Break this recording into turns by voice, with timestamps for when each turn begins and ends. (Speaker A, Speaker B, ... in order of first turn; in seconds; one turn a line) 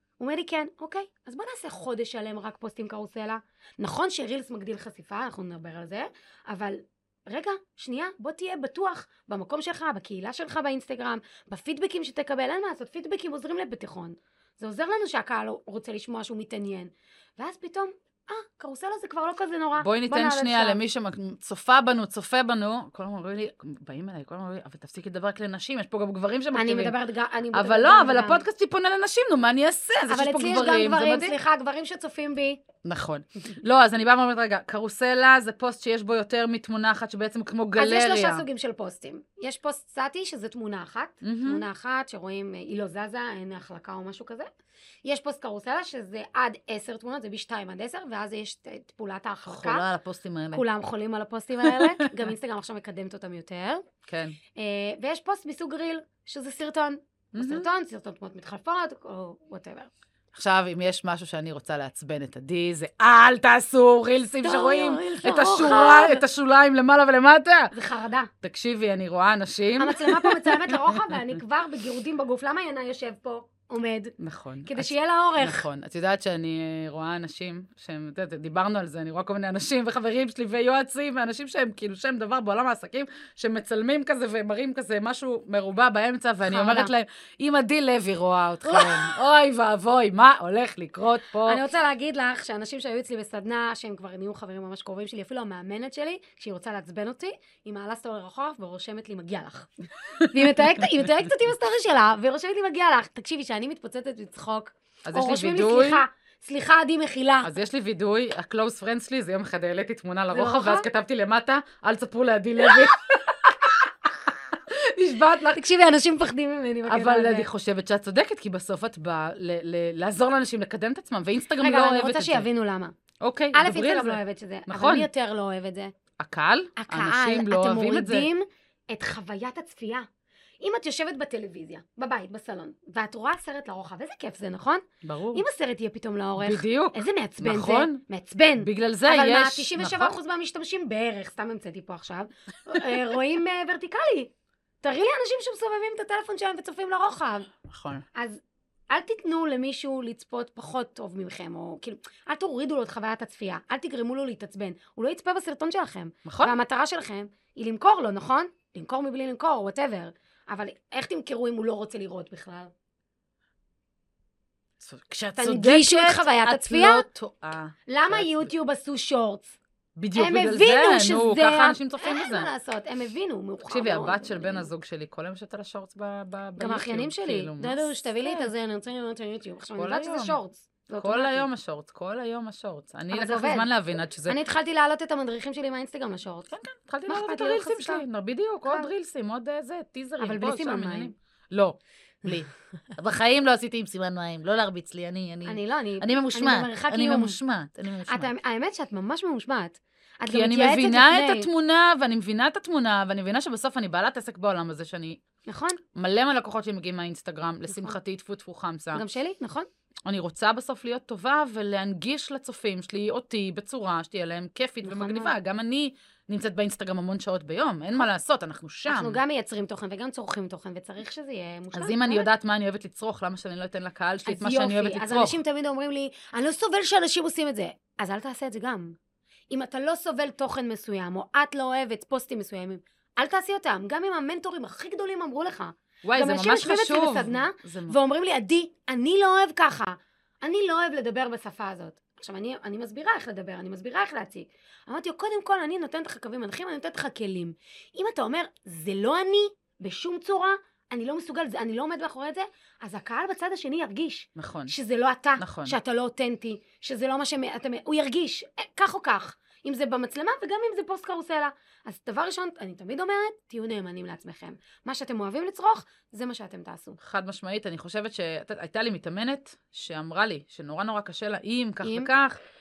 Speaker A: 0.2-20.8
Speaker B: 19.8-27.0
Speaker A: 26.5-28.4
Speaker B: 27.5-31.4
Speaker A: 30.1-32.6
Speaker B: 32.8-38.4
Speaker A: 37.8-44.5
Speaker B: 41.2-41.6
Speaker A: 45.0-49.9
Speaker B: 49.5-50.6
Speaker A: 50.5-53.9
Speaker B: 51.7-52.1
Speaker B: 54.1-54.4
Speaker A: 54.5-59.9
Speaker B: 57.4-57.7
Speaker B: 60.3-67.8
Speaker A: 64.4-66.2
Speaker A: 67.7-68.3
Speaker B: 68.4-71.3
Speaker A: 69.8-74.2
Speaker B: 74.2-91.6
Speaker A: 74.7-75.7
Speaker A: 86.5-86.9
Speaker A: 88.6-89.2
Speaker A: 91.5-107.5
Speaker B: 100.2-100.9
Speaker B: 105.0-106.0
Speaker B: 107.4-115.6
Speaker A: 110.3-110.9
Speaker A: 115.5-117.5
Speaker B: 116.9-122.5
Speaker A: 121.6-122.9
Speaker B: 123.2-125.1
Speaker A: 123.5-125.9
Speaker B: 126.2-128.3
Speaker A: 126.8-130.1
Speaker A: 130.6-144.3
Speaker B: 135.0-135.4
Speaker B: 136.4-138.0
Speaker B: 138.6-140.2
Speaker A: 144.8-147.5
Speaker B: 147.7-148.1
Speaker A: 148.2-162.7
Speaker B: 156.2-156.6
Speaker B: 164.8-168.5
Speaker A: 165.4-167.1
Speaker A: 167.9-169.6
Speaker B: 170.0-172.5
Speaker A: 170.2-174.7
Speaker B: 173.7-178.5
Speaker A: 176.6-181.5
Speaker B: 179.8-180.4
Speaker B: 180.9-184.4
Speaker A: 183.1-183.7
Speaker A: 184.2-186.5
Speaker B: 186.5-198.3
Speaker A: 187.1-188.0
Speaker A: 188.7-188.9
Speaker A: 190.2-191.1
Speaker A: 195.5-197.4
Speaker A: 198.1-201.5
Speaker B: 200.3-205.2
Speaker A: 205.5-205.8
Speaker B: 205.9-209.0
Speaker A: 207.7-208.0
Speaker A: 208.9-209.7
Speaker B: 210.1-219.2
Speaker A: 214.8-215.3
Speaker A: 218.9-222.3
Speaker B: 221.7-225.4
Speaker A: 224.3-229.0
Speaker A: 229.5-267.0
Speaker B: 236.0-238.0
Speaker B: 254.4-254.8
Speaker B: 255.4-255.8
Speaker B: 267.0-272.4
Speaker A: 271.8-272.1